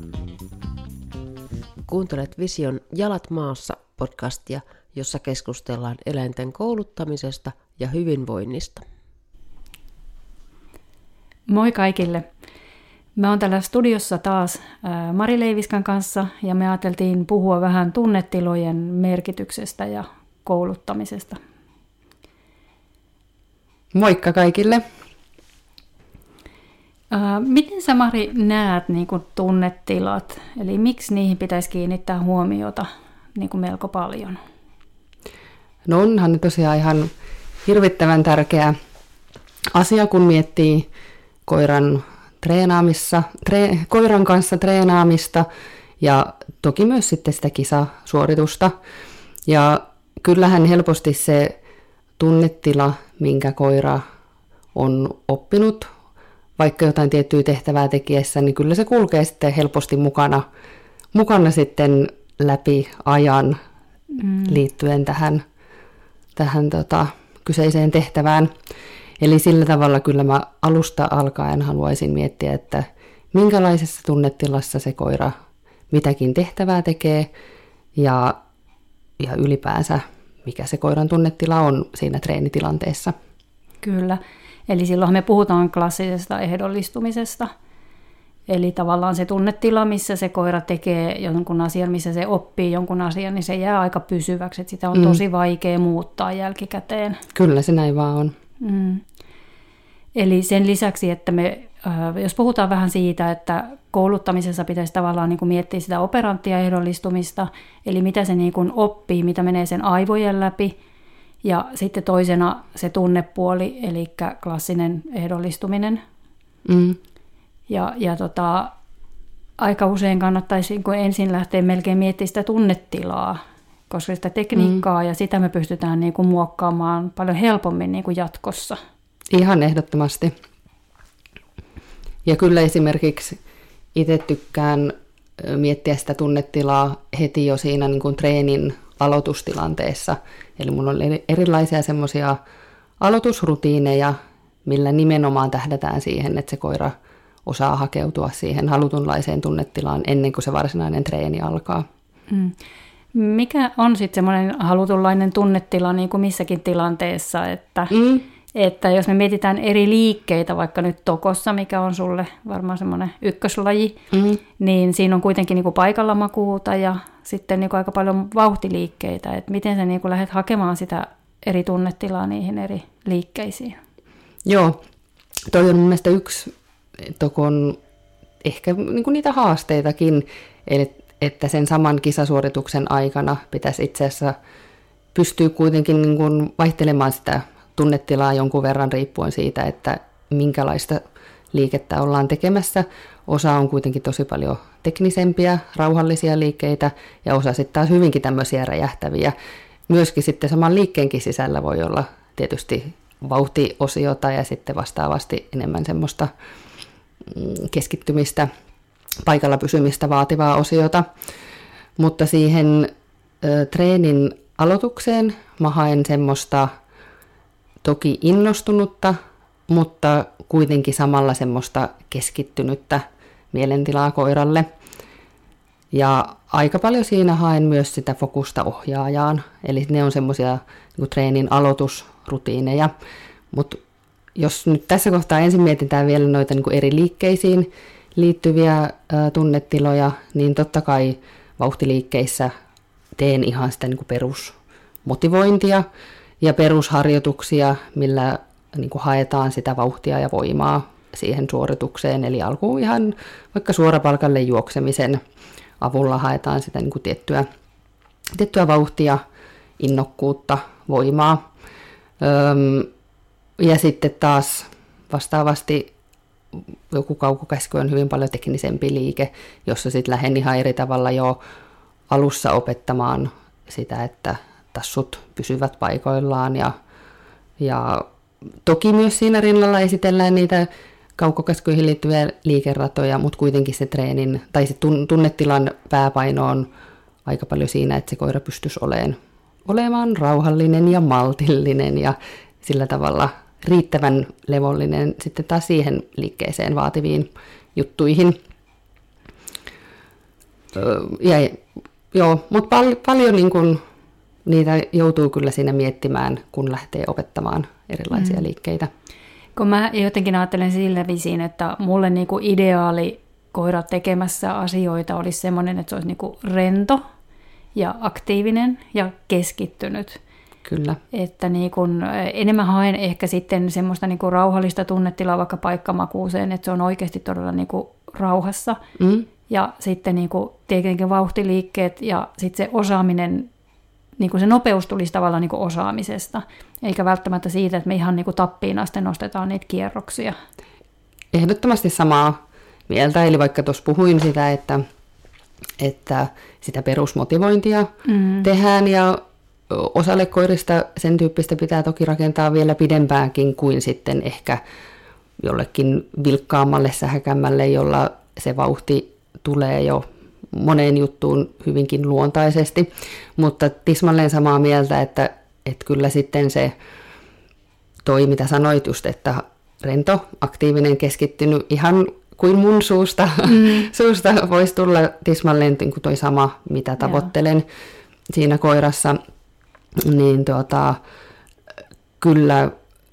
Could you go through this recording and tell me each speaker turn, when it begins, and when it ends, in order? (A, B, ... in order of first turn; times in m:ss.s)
0:01.9-0:08.8 A
0:11.5-0:12.3 B
0:13.2-0:21.4 B
0:23.9-0:24.8 C
0:27.1-0:34.4 B
0:35.9-0:37.1 C
0:37.6-0:38.8 C
0:39.7-0:40.9 C
0:41.4-0:45.4 C
0:46.0-0:48.8 C
0:49.5-0:51.6 C
0:52.2-0:54.0 C
0:54.8-0:55.9 C
0:56.6-1:00.4 C
1:01.1-1:03.6 C
1:04.1-1:04.6 B
1:04.5-1:05.4 C
1:06.4-1:08.5 C
1:09.2-1:15.3 C
1:15.9-1:17.3 C
1:18.0-1:18.4 C
1:19.2-1:23.1 C
1:23.8-1:27.5 B
1:28.5-1:37.2 B
1:34.9-1:35.2 C
1:37.3-1:38.3 C
1:38.6-1:39.0 B
1:40.2-1:50.7 B
1:51.4-1:56.0 B
1:56.6-1:57.0 C
1:57.7-1:58.7 B
1:59.6-2:08.8 B
2:04.6-2:04.8 C
2:09.3-2:10.3 C
2:12.2-2:13.4 C
2:13.9-2:22.4 C
2:23.0-2:31.8 C
2:32.3-2:32.6 B
2:33.1-2:37.9 B
2:37.9-2:38.2 C
2:38.5-2:44.0 B
2:44.1-2:44.4 C
2:44.6-2:53.8 B
2:54.4-2:54.8 C
2:55.5-2:57.8 C
2:58.4-3:04.4 C
3:05.1-3:11.0 C
3:11.5-3:19.3 C
3:19.9-3:26.3 C
3:27.2-3:28.5 C
3:29.2-3:31.1 C
3:32.0-3:32.9 C
3:33.4-3:36.7 C
3:37.8-3:39.2 C
3:39.7-3:44.7 C
3:45.9-3:52.9 C
3:53.5-3:53.8 C
3:54.4-4:02.5 C
4:03.2-4:05.8 C
4:06.4-4:15.2 C
4:15.8-4:17.5 C
4:18.3-4:19.2 C
4:19.8-4:21.5 C
4:22.2-4:22.9 C
4:23.6-4:25.9 C
4:26.5-4:31.4 C
4:32.1-4:36.7 C
4:37.6-4:38.1 C
4:38.6-4:46.7 C
4:47.2-4:58.4 C
5:00.7-5:03.8 C
5:04.4-5:08.9 C
5:08.1-5:08.5 B
5:09.6-5:17.0 B
5:17.8-5:20.2 B
5:20.6-5:21.0 C
5:21.1-5:28.8 B
5:29.0-5:29.3 C
5:29.5-5:33.5 B
5:34.2-5:40.4 B
5:41.3-5:44.8 C
5:45.8-5:47.9 C
5:48.1-5:48.5 B
5:48.4-5:54.6 C
5:55.4-6:06.7 C
6:08.0-6:17.6 C
6:13.4-6:13.9 B
6:17.0-6:17.3 B
6:18.3-6:19.2 C
6:20.0-6:21.0 C
6:22.2-6:22.7 C